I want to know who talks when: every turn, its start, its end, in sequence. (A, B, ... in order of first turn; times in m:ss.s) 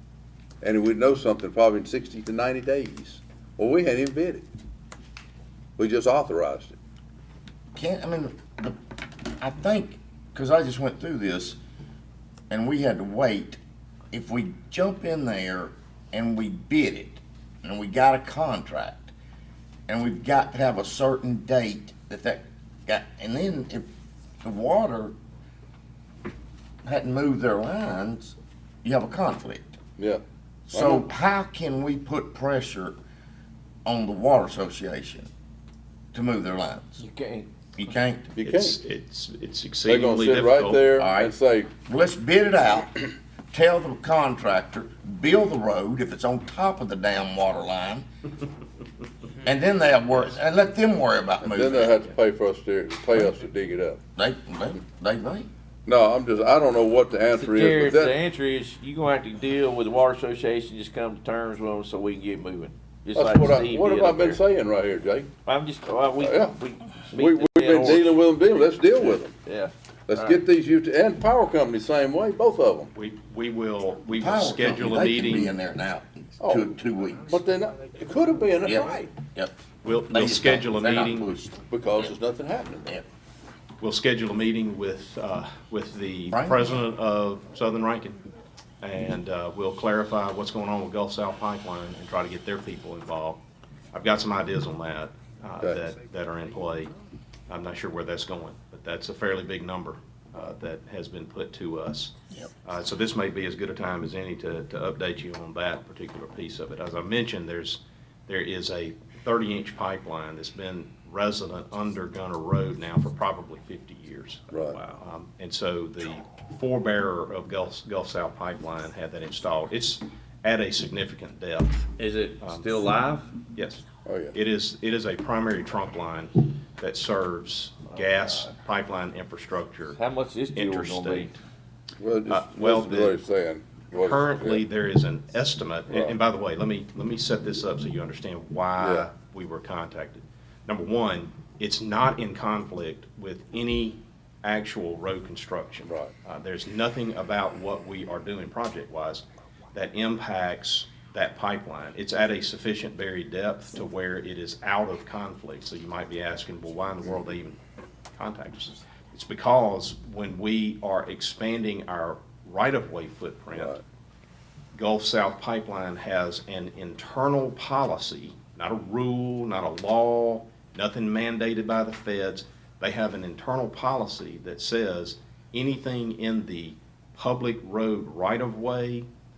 0:00.6-0:04.4 A
0:05.8-0:06.8 A
0:07.7-0:08.8 B
0:09.4-0:11.6 B
0:12.5-0:13.6 B
0:14.1-0:19.1 B
0:19.9-0:23.9 B
0:24.4-0:25.1 B
0:26.8-0:29.8 B
0:30.0-0:31.1 A
0:30.7-0:33.0 B
0:33.8-0:35.3 B
0:36.1-0:37.0 B
0:37.0-0:37.5 C
0:37.8-0:38.3 B
0:38.4-0:38.8 A
0:38.4-0:40.9 D
0:39.9-0:41.7 A
0:41.0-0:48.0 B
0:49.4-0:52.0 B
0:51.4-0:54.0 A
0:54.2-0:55.5 B
0:55.8-0:58.2 A
0:57.3-1:04.4 C
1:03.1-1:05.3 A
1:05.4-1:08.2 C
1:06.2-1:06.6 A
1:07.1-1:09.4 A
1:09.3-1:10.4 C
1:10.1-1:12.9 A
1:12.9-1:15.6 D
1:14.1-1:17.4 B
1:16.4-1:19.1 A
1:18.6-1:19.5 B
1:19.8-1:21.3 D
1:20.1-1:22.1 B
1:21.7-1:22.9 A
1:23.8-1:28.2 D
1:26.3-1:26.8 B
1:28.8-1:36.9 D
1:37.5-1:42.1 D
1:42.6-2:02.8 D
1:54.5-1:54.8 A
2:02.0-2:03.3 C
2:03.5-2:10.0 D
2:04.0-2:04.4 A
2:09.9-2:11.4 C
2:10.5-2:11.4 D
2:12.0-2:14.6 A
2:12.3-2:13.2 D
2:13.9-2:37.6 D
2:18.8-2:19.1 A
2:25.8-2:26.1 A
2:38.2-2:43.8 D
2:43.5-2:43.8 A
2:44.7-2:59.1 D